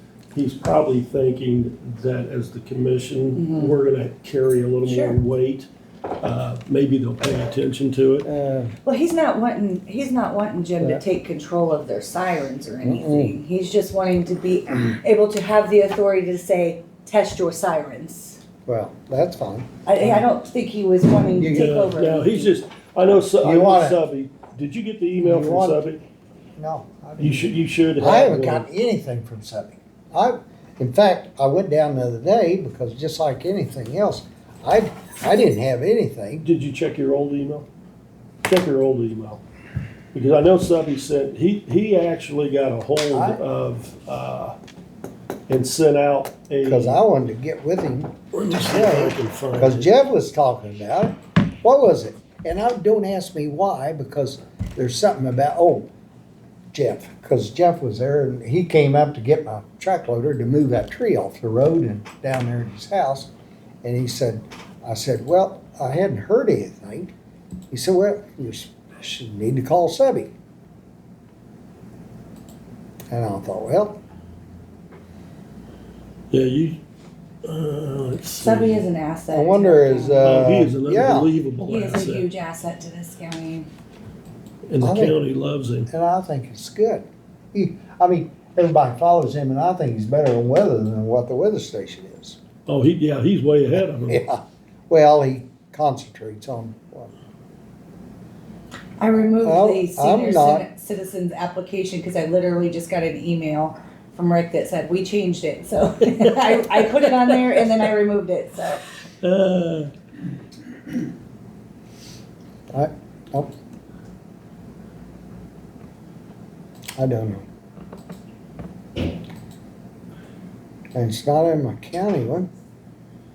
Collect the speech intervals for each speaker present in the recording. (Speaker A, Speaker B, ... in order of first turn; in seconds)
Speaker A: 0.3-5.7, 6.2-8.3, 21.5-26.0, 27.2-28.7, 36.4-37.7, 38.4-39.4, 40.1-44.5, 45.5-47.0, 48.3-49.9, 76.3-76.8, 77.5-78.8, 80.2-82.3, 84.7-85.9, 92.7-94.2, 106.3-107.5, 109.2-109.9
Speaker B: 3.4-3.8, 4.8-5.2, 8.8-18.4, 19.9-22.6, 78.4-80.3, 81.6-83.7, 99.0-108.8
Speaker C: 8.2-8.7, 12.8-13.3, 18.7-20.3, 21.4-21.8, 23.4-24.0, 25.2-25.8, 26.6-36.5, 43.1-43.4, 46.6-55.9, 56.7-63.3, 63.8-67.1, 67.7-70.3, 73.1-74.0, 79.3-81.3, 84.8-85.2, 85.9-92.4, 93.7-97.1, 99.3-100.7, 112.7-113.5, 117.0-117.5, 121.0-122.5